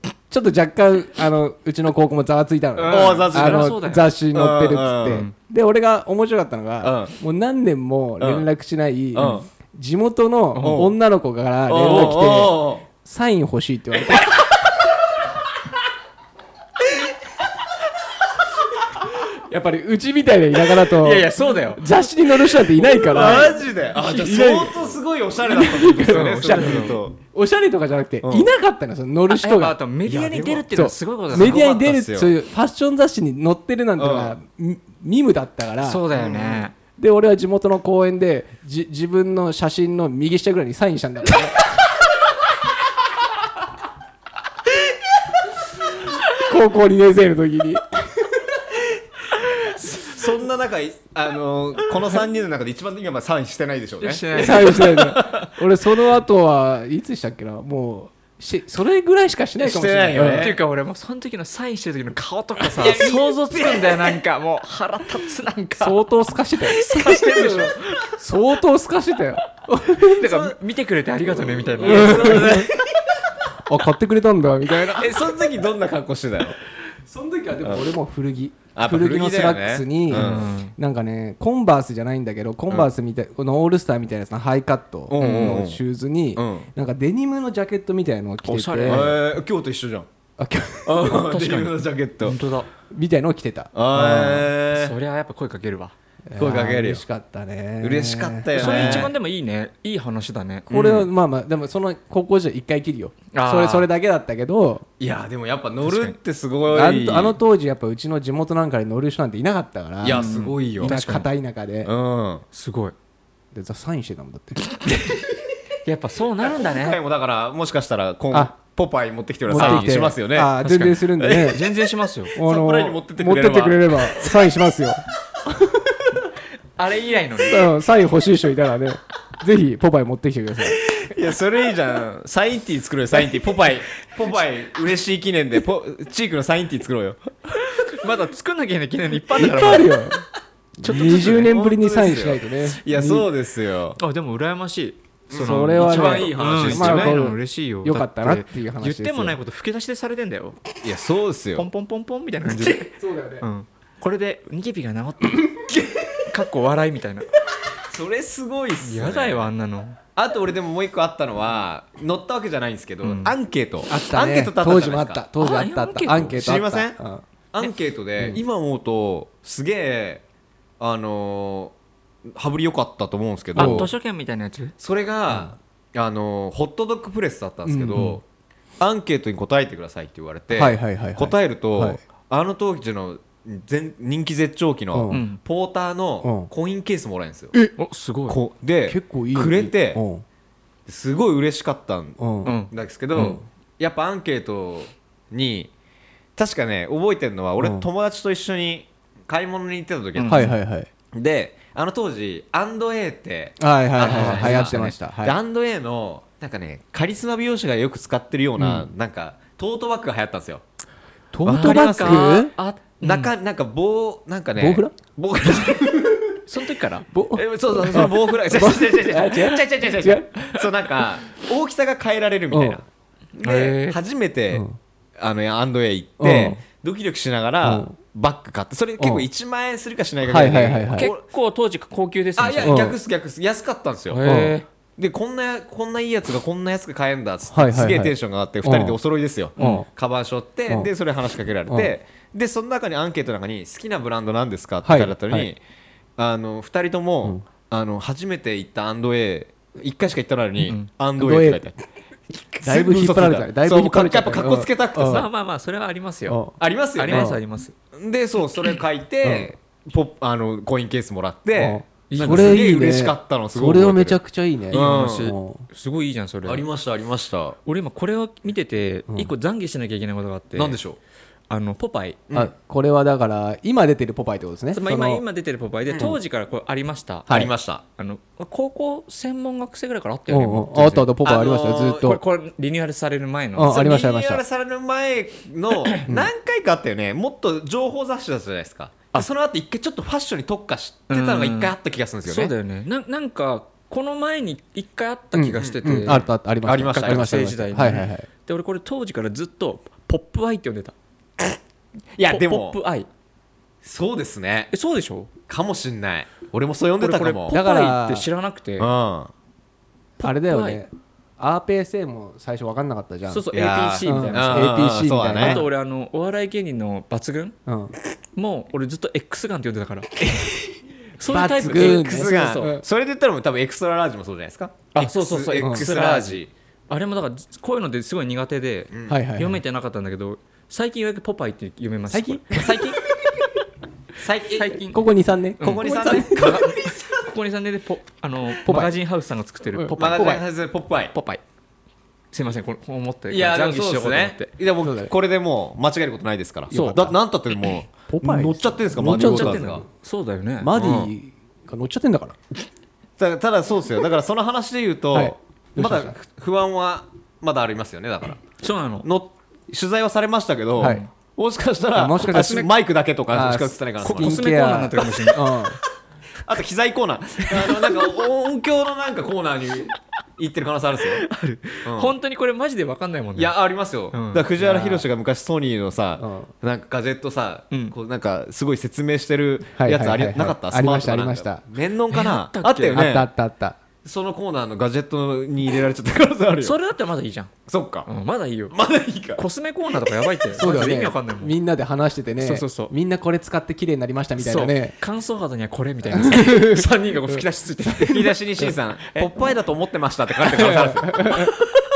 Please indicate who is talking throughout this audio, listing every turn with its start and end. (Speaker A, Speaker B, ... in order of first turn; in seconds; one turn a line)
Speaker A: 0.3-14.4
Speaker B: 2.8-4.1
Speaker C: 2.9-3.8
Speaker C: 4.3-5.2
Speaker C: 6.8-7.1
Speaker C: 8.2-8.5
Speaker C: 9.1-9.5
Speaker B: 10.5-10.9
Speaker C: 10.6-10.9
Speaker C: 11.7-12.8
Speaker B: 11.8-12.3
Speaker A: 19.4-24.9
Speaker B: 20.9-21.8
Speaker C: 23.1-27.2
Speaker A: 25.4-29.8
Speaker B: 26.1-27.0
Speaker C: 28.2-28.5
Speaker B: 29.3-31.6
Speaker C: 30.1-30.7
Speaker A: 30.7-36.0
Speaker C: 31.3-32.3
Speaker C: 34.0-34.4
Speaker B: 35.8-36.7
Speaker C: 36.1-36.6
Speaker A: 37.0-41.6
Speaker A: 46.3-48.4
Speaker C: 49.9-55.5
Speaker B: 54.0-55.3
Speaker A: 54.3-60.5
Speaker C: 59.6-60.6
Speaker B: 60.3-66.0
Speaker C: 62.7-64.2
Speaker A: 65.8-70.2
Speaker B: 66.6-68.2
Speaker B: 69.9-72.6
Speaker C: 70.2-70.5
Speaker C: 71.2-73.1
Speaker A: 71.8-72.7
Speaker A: 73.7-75.2
Speaker C: 74.9-76.6
Speaker A: 77.1-89.1
Speaker C: 78.7-80.5
Speaker B: 80.1-80.7
Speaker C: 85.1-85.8
Speaker B: 85.2-85.6
Speaker C: 86.3-86.7
Speaker B: 88.4-89.2
Speaker C: 88.8-90.1
Speaker A: 90.4-91.2
Speaker C: 90.8-92.4
Speaker B: 91.2-92.7
Speaker A: 92.9-94.5
Speaker C: 93.7-94.9
Speaker B: 94.7-95.9
Speaker A: 96.3-99.1
Speaker C: 96.3-97.0
Speaker C: 97.8-99.1
Speaker B: 98.5-100.7
Speaker C: 100.7-101.1
Speaker A: 100.7-104.8
Speaker B: 103.3-103.9
Speaker C: 105.0-107.4
Speaker B: 105.8-106.1
Speaker A: 106.7-110.3
Speaker C: 110.0-110.9
Speaker B: 110.1-111.3
Speaker A: 110.8-111.9
Speaker C: 111.8-112.4
Speaker B: 112.5-112.9
Speaker A: 113.5-114.7
Speaker B: 115.8-117.0
Speaker C: 116.4-120.5
Speaker A: 119.5-121.6
Speaker B: 119.5-119.9
Speaker B: 120.6-122.3
Speaker C: 121.2-121.6
Speaker A: 122.3-125.9
Speaker C: 122.4-124.3
Speaker B: 126.8-127.7
Speaker A: 127.5-130.8
Speaker C: 130.9-137.3
Speaker B: 137.6-140.0
Speaker A: 139.3-140.2
Speaker A: 140.8-143.3
Speaker B: 140.8-141.5
Speaker C: 140.9-144.0
Speaker B: 144.0-150.6
Speaker C: 145.3-147.2
Speaker A: 145.3-149.3
Speaker C: 150.8-151.7
Speaker B: 151.6-155.7
Speaker A: 153.0-153.4
Speaker B: 156.2-157.3
Speaker C: 157.8-159.5
Speaker B: 158.8-160.0
Speaker C: 160.2-165.2
Speaker B: 163.0-163.3
Speaker A: 163.9-167.2
Speaker B: 165.4-166.4
Speaker C: 166.3-167.0
Speaker C: 167.5-170.2
Speaker C: 170.8-171.7
Speaker C: 172.2-173.9
Speaker B: 173.6-174.7
Speaker A: 173.6-173.9
Speaker C: 174.8-178.2
Speaker A: 177.7-178.2
Speaker C: 178.8-187.5
Speaker A: 180.5-182.0
Speaker A: 184.9-185.2
Speaker B: 185.1-185.4
Speaker A: 186.2-186.5
Speaker B: 187.8-188.4
Speaker C: 188.3-190.0
Speaker A: 188.9-190.2
Speaker C: 190.9-192.2
Speaker A: 192.2-192.5
Speaker B: 192.4-193.4
Speaker C: 192.7-195.7
Speaker C: 196.3-200.5
Speaker A: 197.6-197.8
Speaker B: 200.2-200.5
Speaker A: 200.3-200.9
Speaker C: 201.1-210.6
Speaker A: 203.6-205.4
Speaker B: 204.0-204.9
Speaker A: 208.6-208.9
Speaker A: 211.3-212.5
Speaker C: 211.4-212.4
Speaker B: 211.5-213.3
Speaker C: 213.0-216.4
Speaker A: 214.6-214.9
Speaker B: 216.4-217.1
Speaker A: 217.1-220.3
Speaker C: 217.3-222.8
Speaker A: 222.5-222.8
Speaker C: 223.3-224.6
Speaker B: 223.4-224.0
Speaker C: 225.2-231.2
Speaker A: 226.2-226.6
Speaker A: 227.6-227.9
Speaker A: 229.0-229.2
Speaker A: 230.2-231.1
Speaker B: 231.0-232.9
Speaker C: 232.4-234.2
Speaker A: 232.6-232.9
Speaker B: 234.1-234.7
Speaker A: 234.2-234.6
Speaker C: 235.0-245.6
Speaker A: 237.5-239.0
Speaker A: 239.6-239.9
Speaker B: 239.6-239.8
Speaker A: 241.7-241.9
Speaker A: 244.8-245.5
Speaker C: 246.2-251.7
Speaker A: 251.2-251.6
Speaker C: 252.3-255.2
Speaker A: 252.6-255.2
Speaker B: 255.0-256.4
Speaker A: 256.3-256.6
Speaker C: 256.6-257.4
Speaker B: 256.9-257.7
Speaker A: 257.1-257.4
Speaker C: 257.9-264.2
Speaker A: 259.2-259.5
Speaker A: 261.5-265.6
Speaker B: 262.1-262.6
Speaker C: 264.7-265.3
Speaker B: 264.7-266.7
Speaker C: 266.4-267.6
Speaker B: 267.6-270.8
Speaker C: 270.5-271.0
Speaker B: 271.5-272.2
Speaker A: 272.3-275.2
Speaker B: 274.7-281.1
Speaker C: 275.9-276.1
Speaker C: 277.3-277.8
Speaker A: 280.3-282.2
Speaker C: 281.2-282.1
Speaker B: 282.0-283.8
Speaker A: 283.5-284.4
Speaker C: 283.6-292.5
Speaker B: 291.1-300.9
Speaker A: 295.3-298.3
Speaker C: 295.6-298.0
Speaker C: 302.1-302.8
Speaker B: 302.3-303.1
Speaker C: 303.8-304.7
Speaker B: 304.7-305.3
Speaker C: 305.5-307.6
Speaker B: 307.0-308.9
Speaker A: 307.5-308.3
Speaker C: 308.8-309.3
Speaker B: 310.2-310.8
Speaker A: 310.2-313.4
Speaker B: 313.3-314.8
Speaker C: 313.5-315.6
Speaker A: 314.0-315.6
Speaker B: 315.3-317.6
Speaker A: 317.6-317.9
Speaker B: 318.4-320.6
Speaker B: 321.2-322.7
Speaker A: 321.2-322.8
Speaker C: 321.4-326.5
Speaker B: 324.9-332.7
Speaker A: 325.6-325.9
Speaker C: 328.9-329.2
Speaker A: 329.1-329.6
Speaker A: 332.1-332.8
Speaker C: 332.5-333.0
Speaker C: 334.2-334.8
Speaker B: 334.5-335.0
Speaker A: 334.9-336.6
Speaker B: 335.6-340.4
Speaker C: 335.6-337.2
Speaker A: 338.6-338.9
Speaker A: 339.7-340.4
Speaker C: 339.9-341.1
Speaker B: 341.1-341.4
Speaker B: 342.3-344.5
Speaker C: 343.3-349.8
Speaker A: 344.8-345.1
Speaker B: 346.7-347.1
Speaker A: 346.7-347.1
Speaker A: 348.1-349.9
Speaker B: 349.0-350.7
Speaker A: 350.6-352.4
Speaker C: 350.7-351.1
Speaker C: 353.2-358.4
Speaker A: 355.1-356.1
Speaker B: 358.6-359.1
Speaker C: 359.0-364.4
Speaker A: 360.8-361.0
Speaker B: 360.8-361.1
Speaker A: 361.9-362.7
Speaker A: 363.3-365.8
Speaker B: 364.0-365.6
Speaker C: 366.4-371.2
Speaker B: 367.6-367.9
Speaker B: 371.1-373.5
Speaker C: 371.8-372.1
Speaker C: 373.4-383.3
Speaker B: 374.1-374.4
Speaker A: 374.6-375.0
Speaker A: 376.2-376.5
Speaker B: 377.7-377.9
Speaker A: 379.7-381.6
Speaker B: 382.1-383.1
Speaker A: 382.9-383.8
Speaker C: 384.0-386.8
Speaker B: 386.6-388.8
Speaker C: 387.7-388.1
Speaker C: 388.7-389.4
Speaker B: 389.4-391.5
Speaker A: 390.6-394.9
Speaker B: 392.4-392.9
Speaker B: 394.4-398.4
Speaker A: 396.1-398.1
Speaker C: 397.9-401.5
Speaker A: 400.5-401.5